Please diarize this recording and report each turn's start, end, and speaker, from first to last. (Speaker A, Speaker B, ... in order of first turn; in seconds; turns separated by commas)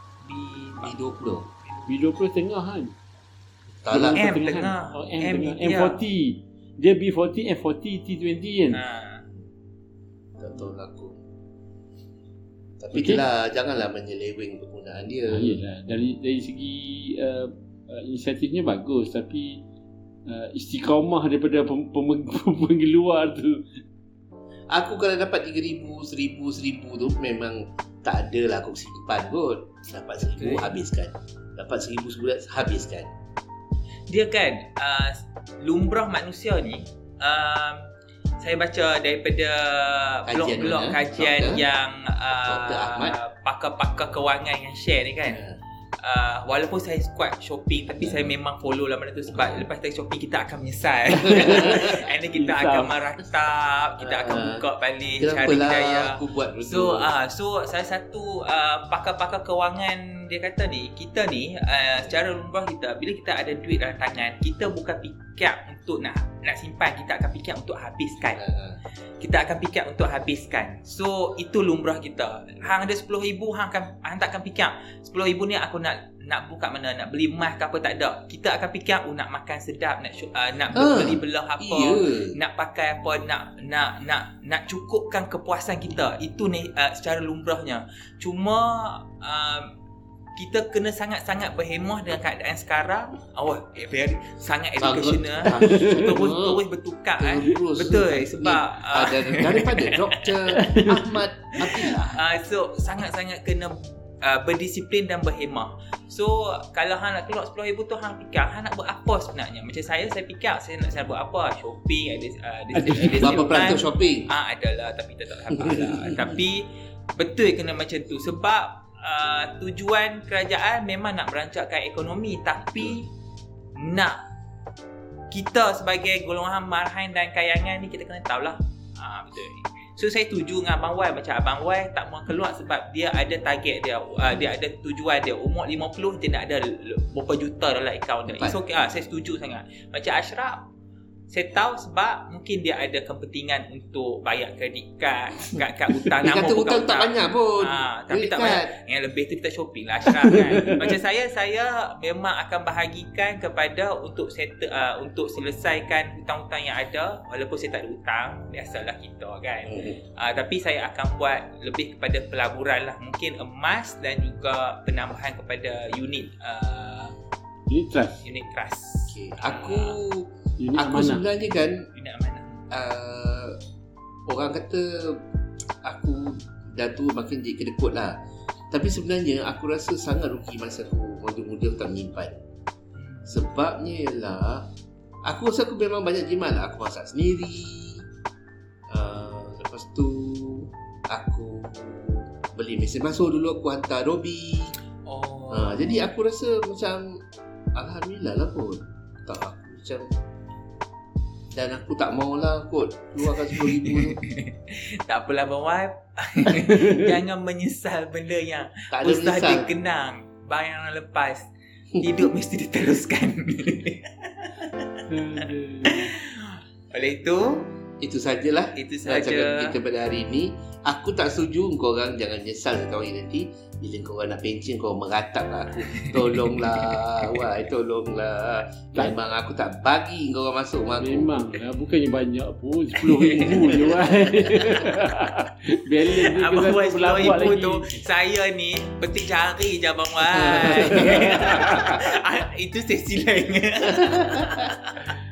Speaker A: 0.2-1.0, Speaker B: 0.8-1.5, Speaker C: 1.9-3.0, Speaker B: 3.9-4.2, Speaker C: 3.9-8.8, Speaker A: 4.2-6.0, Speaker A: 8.7-9.3, Speaker B: 10.4-11.2, Speaker B: 12.8-15.6, Speaker C: 12.9-13.3, Speaker C: 15.3-19.6, Speaker C: 20.3-23.8, Speaker B: 24.7-33.1, Speaker A: 30.4-30.8, Speaker A: 34.1-37.9, Speaker A: 38.4-45.4, Speaker B: 40.3-41.6, Speaker B: 42.4-43.2, Speaker B: 45.3-45.6, Speaker A: 46.0-68.4, Speaker B: 48.0-48.3, Speaker B: 49.3-49.6, Speaker B: 51.2-52.1, Speaker C: 51.3-53.0, Speaker B: 54.0-54.6, Speaker B: 55.2-57.1, Speaker B: 68.3-68.8, Speaker A: 69.2-89.7, Speaker B: 80.7-82.4, Speaker A: 90.4-100.9, Speaker B: 94.8-96.6, Speaker C: 95.6-96.0, Speaker B: 97.2-102.4, Speaker C: 100.6-101.0, Speaker A: 101.6-123.1, Speaker C: 112.7-113.4, Speaker B: 113.2-114.3, Speaker B: 115.5-116.4, Speaker A: 123.8-124.2, Speaker A: 125.3-140.7, Speaker B: 138.3-138.6, Speaker A: 141.3-167.2, Speaker B: 146.1-148.8, Speaker B: 150.1-150.9, Speaker B: 159.7-160.0, Speaker C: 167.7-168.2, Speaker A: 168.2-170.0, Speaker B: 169.1-171.9, Speaker C: 170.6-171.2, Speaker A: 171.9-172.7, Speaker B: 172.7-173.6, Speaker B: 174.3-175.2, Speaker B: 175.8-182.4, Speaker A: 182.9-183.4, Speaker B: 183.3-184.7, Speaker B: 185.2-188.1, Speaker B: 188.9-194.8, Speaker A: 195.1-196.1, Speaker B: 195.5-197.2, Speaker B: 197.8-200.1, Speaker B: 201.5-204.2, Speaker A: 203.5-211.5, Speaker B: 208.9-209.7, Speaker B: 212.0-212.2, Speaker A: 212.0-217.7, Speaker C: 215.1-216.1, Speaker B: 218.0-231.3, Speaker A: 218.8-219.7, Speaker A: 226.0-227.0, Speaker C: 231.0-238.0, Speaker A: 233.2-233.8, Speaker B: 233.3-234.6, Speaker A: 236.1-245.1, Speaker B: 240.3-242.0, Speaker C: 240.6-241.9, Speaker B: 243.8-244.7